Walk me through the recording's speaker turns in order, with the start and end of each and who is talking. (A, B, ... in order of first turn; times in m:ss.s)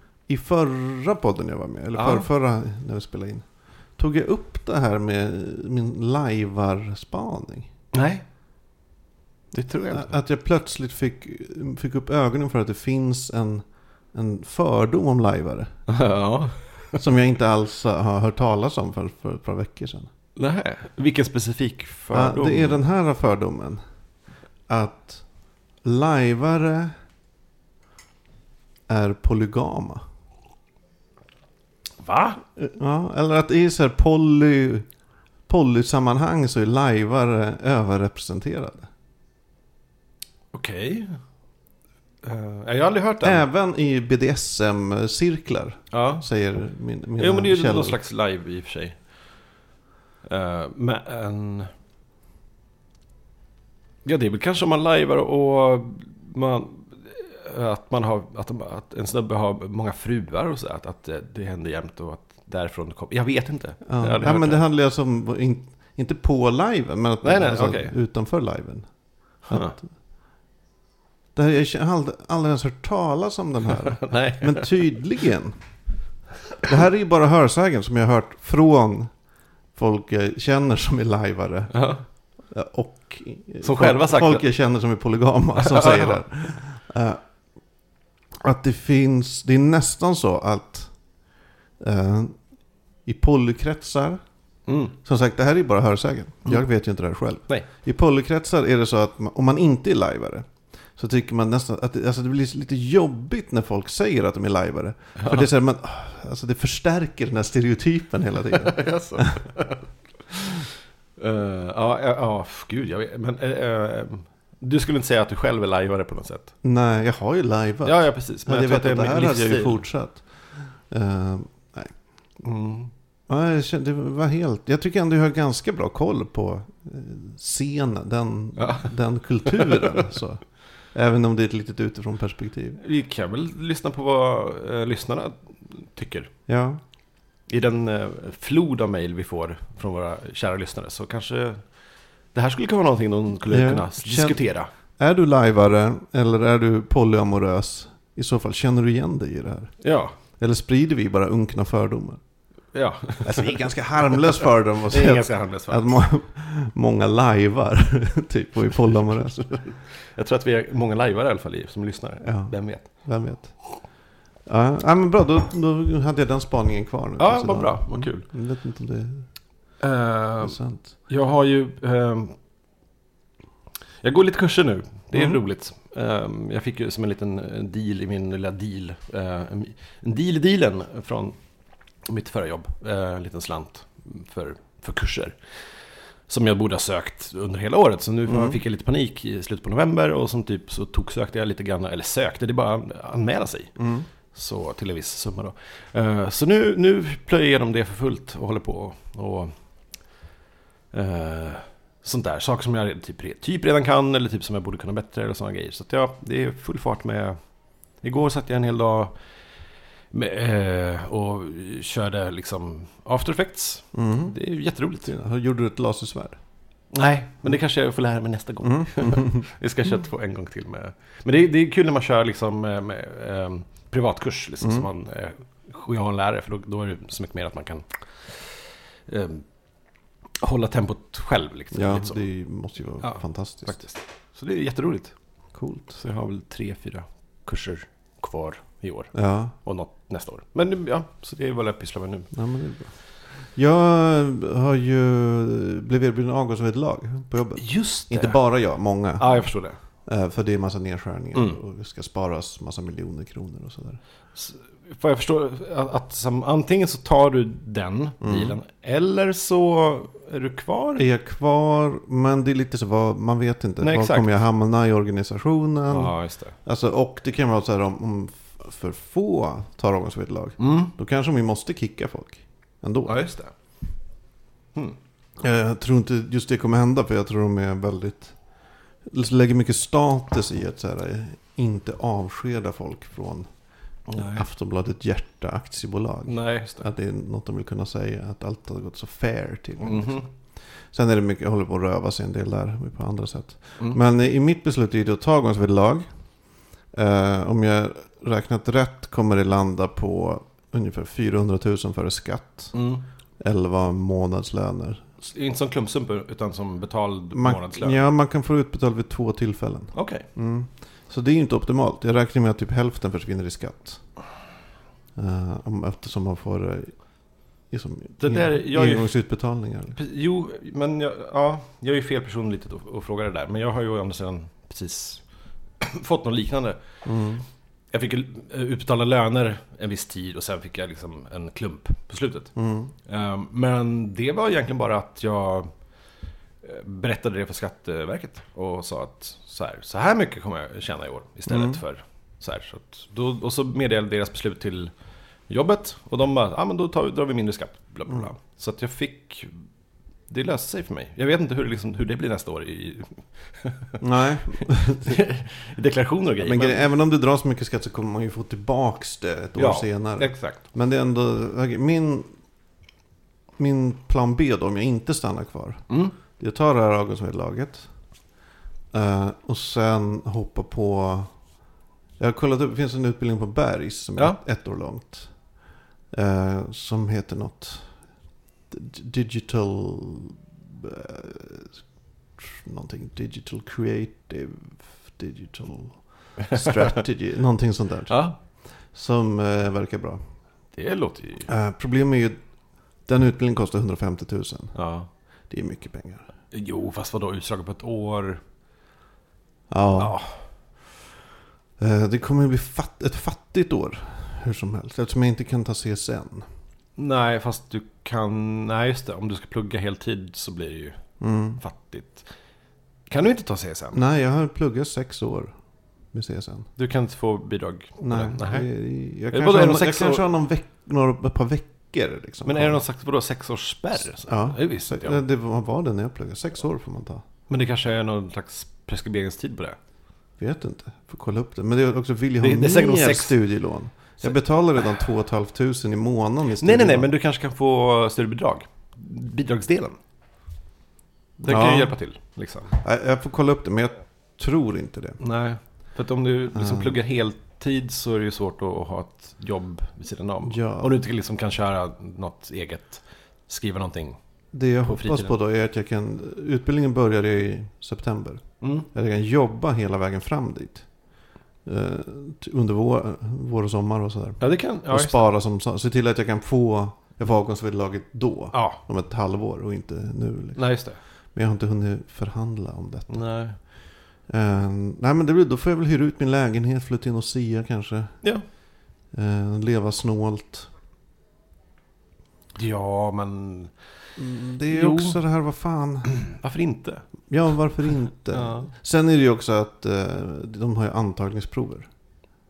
0:00.3-0:03.5 A
0:02.0-0:02.3 B
0:04.0-0:07.7 A
0:07.9-0:08.2 B
0:09.5-0:10.2 B
0:09.9-0:15.7 A
0:15.9-0:17.0 B
0:17.0-0:20.1 A
0:20.4-0:22.8 B
0:22.1-0:23.8 A
0:24.7-0:25.2 A
0:25.8-0:26.9 A
0:28.9-0:30.0 A
0:32.0-0:32.4 B
0:32.6-0:34.9 A
0:35.5-0:38.9 A
0:40.5-0:41.2 B
0:42.2-0:43.5 B
0:43.2-0:48.0 A
0:45.9-0:46.3 B
0:47.2-0:49.0 B
0:50.3-0:51.7 B
0:54.0-1:04.6 B
1:03.9-1:08.9 A
1:07.2-1:08.0 B
1:09.5-1:09.8 B
1:09.5-1:09.8 A
1:11.4-1:15.6 A
1:14.0-1:14.8 B
1:16.6-1:19.1 A
1:19.8-1:21.8 A
1:21.7-1:22.0 B
1:22.5-1:27.2 A
1:23.6-1:24.4 B
1:25.6-1:26.2 B
1:28.4-1:30.9 A
1:31.8-1:32.4 A
1:33.1-1:34.2 A
1:34.7-1:35.0 B
1:35.0-1:49.4 A
1:45.2-1:45.4 B
1:48.5-1:49.9 B
1:51.2-1:56.5 B
1:56.6-2:01.9 A
1:57.8-1:59.8 B
2:02.4-2:02.9 B
2:03.3-2:10.4 A
2:08.6-2:08.9 B
2:09.5-2:10.0 B
2:10.9-2:12.8 A
2:12.8-2:16.3 B
2:16.5-2:16.8 A
2:17.5-2:21.6 B
2:22.3-2:24.7 B
2:23.5-2:24.4 A
2:25.0-2:29.7 A
2:29.8-2:30.1 B
2:30.4-2:32.2 A
2:32.7-2:35.8 B
2:33.2-2:39.4 A
2:39.4-2:42.9 B
2:42.2-2:43.5 A
2:44.5-2:49.3 A
2:47.2-2:48.3 B
2:49.8-2:52.3 B
2:50.4-2:50.9 A
2:54.0-3:01.4 B
2:55.1-2:55.4 A
3:02.1-3:05.4 B
3:06.3-3:13.8 B
3:08.3-3:08.6 A
3:13.8-3:14.1 A
3:14.3-3:19.5 B
3:20.9-3:27.4 B
3:28.0-3:29.1 B
3:30.1-3:35.1 B
3:33.9-3:34.4 A
3:35.1-3:36.4 A
3:36.9-3:49.5 B
3:38.6-3:39.4 A
3:44.6-3:44.9 A
3:50.4-3:52.2 B
3:51.7-3:53.8 A
3:53.0-3:55.1 B
3:55.6-3:56.0 A
3:56.0-4:02.3 B
3:59.1-3:59.6 A
4:02.3-4:09.4 A
4:07.6-4:08.4 B
4:09.2-4:09.8 B
4:10.1-4:14.0 A
4:14.4-4:21.0 B
4:18.2-4:18.6 A
4:21.0-4:33.2 A
4:23.8-4:24.3 B
4:25.9-4:26.6 B
4:30.6-4:30.9 B
4:33.1-4:33.5 B
4:35.4-4:38.4 A
4:39.1-4:43.5 A
4:44.1-4:44.4 B
4:44.1-4:50.3 A
4:46.3-4:46.9 B
4:49.8-4:50.3 B
4:50.9-4:56.1 A
4:56.9-5:02.7 A
5:02.7-5:03.0 B
5:03.4-5:05.0 A
5:05.2-5:08.1 B
5:07.3-5:14.0 A
5:09.9-5:10.3 B
5:15.2-5:17.0 A
5:17.7-5:20.0 A
5:18.2-5:19.1 B
5:19.9-5:25.2 B
5:25.8-5:26.8 B
5:27.0-5:27.4 A
5:27.9-5:32.5 B
5:32.6-5:32.9 A
5:33.1-5:35.7 B
5:36.6-5:44.9 B
5:41.5-5:41.8 A
5:45.5-5:49.5 B
5:50.3-5:54.0 B
5:54.0-5:55.2 A
5:54.5-5:56.9 B
5:56.4-6:02.3 A
5:59.6-6:00.6 B
6:03.6-6:07.9 A
6:05.9-6:06.2 B
6:08.9-6:11.3 A
6:12.2-6:15.3 A
6:16.1-6:17.9 A
6:18.7-6:21.8 A
6:22.4-6:28.2 A
6:26.4-6:27.0 B
6:28.1-6:28.4 B
6:28.9-6:30.2 A
6:30.8-6:31.5 B
6:31.5-6:32.4 A
6:33.1-6:34.8 A
6:34.8-6:35.1 B
6:35.5-6:36.3 A
6:36.5-6:38.4 B
6:39.7-6:40.2 A
6:40.0-6:40.4 B
6:41.8-6:46.5 A
6:47.0-6:51.0 B
6:51.2-6:51.6 A
6:51.6-6:52.3 B
6:53.1-6:54.0 B
6:53.9-6:55.5 A
6:56.1-6:56.7 A
6:56.8-6:58.7 B
6:58.0-7:02.8 A
6:59.3-7:00.3 B
7:02.4-7:05.2 B
7:04.2-7:07.2 A
7:07.5-7:09.8 B
7:10.4-7:17.1 A
7:12.4-7:13.4 B
7:16.6-7:20.0 B
7:21.4-7:22.8 B
7:21.4-7:22.0 A
7:22.8-7:25.2 A
7:25.2-7:34.2 B
7:26.5-7:27.0 A
7:30.5-7:31.0 A
7:34.5-7:40.9 A
7:34.8-7:35.3 B
7:38.6-7:38.9 B
7:41.6-7:50.8 A
7:44.4-7:45.2 B
7:48.5-7:48.8 B
7:50.6-7:51.0 B
7:51.3-7:53.2 A
7:53.1-7:53.6 B
7:54.3-7:58.3 A
7:59.1-8:00.7 A
8:02.6-8:03.7 B
8:04.2-8:06.2 A
8:04.7-8:05.2 B
8:06.2-8:07.1 B
8:07.3-8:11.9 A
8:08.3-8:08.7 B